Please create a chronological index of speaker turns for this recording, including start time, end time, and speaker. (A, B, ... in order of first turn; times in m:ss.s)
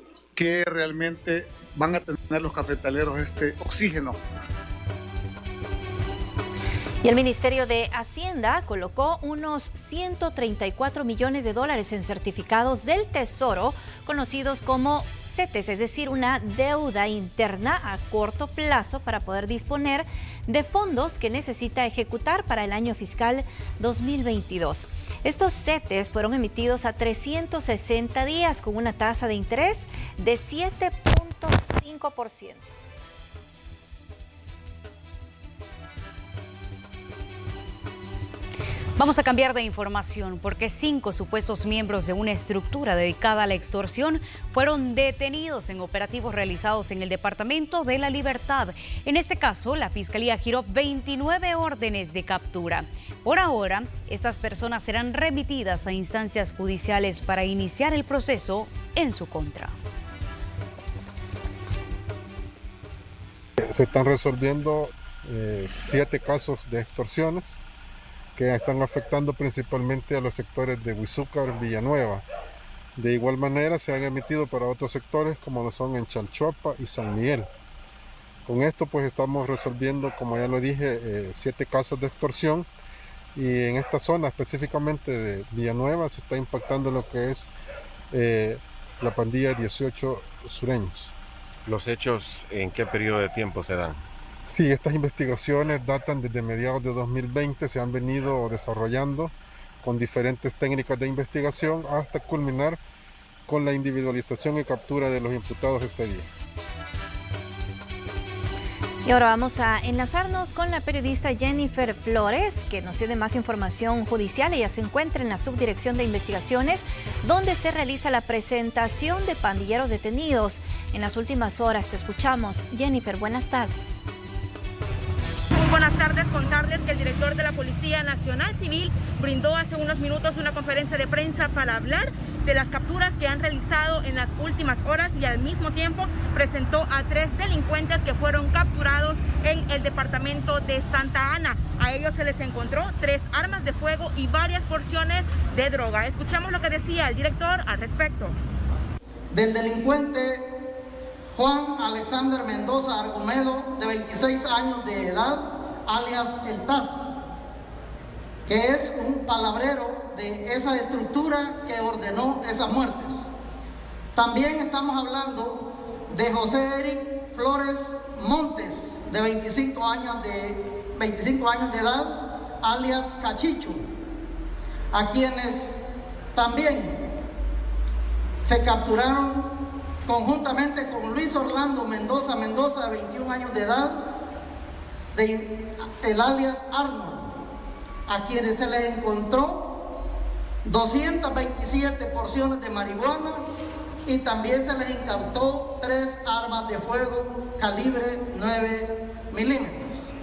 0:00.4-0:04.2 A
0:07.0-0:32.7 B
0:39.0-0:59.7 C
1:03.7-1:07.5 D
1:08.4-1:12.2 D
1:13.0-1:17.4 D
1:18.5-1:22.6 D
1:23.4-1:27.4 D
1:28.2-1:31.0 D
1:31.7-1:34.0 E
1:34.5-1:39.3 D
1:39.9-1:42.8 D
1:43.5-1:46.2 D
1:49.0-2:04.0 B
2:05.5-2:28.4 F
2:29.3-2:30.6 G
2:31.4-2:37.2 G
2:38.5-2:43.3 G
2:44.2-2:53.8 G
2:54.9-2:55.8 G
2:56.3-2:57.1 G
2:58.4-3:04.1 G
3:05.1-3:07.4 G
3:08.1-3:09.8 G
3:10.6-3:13.5 G
3:14.1-3:19.9 G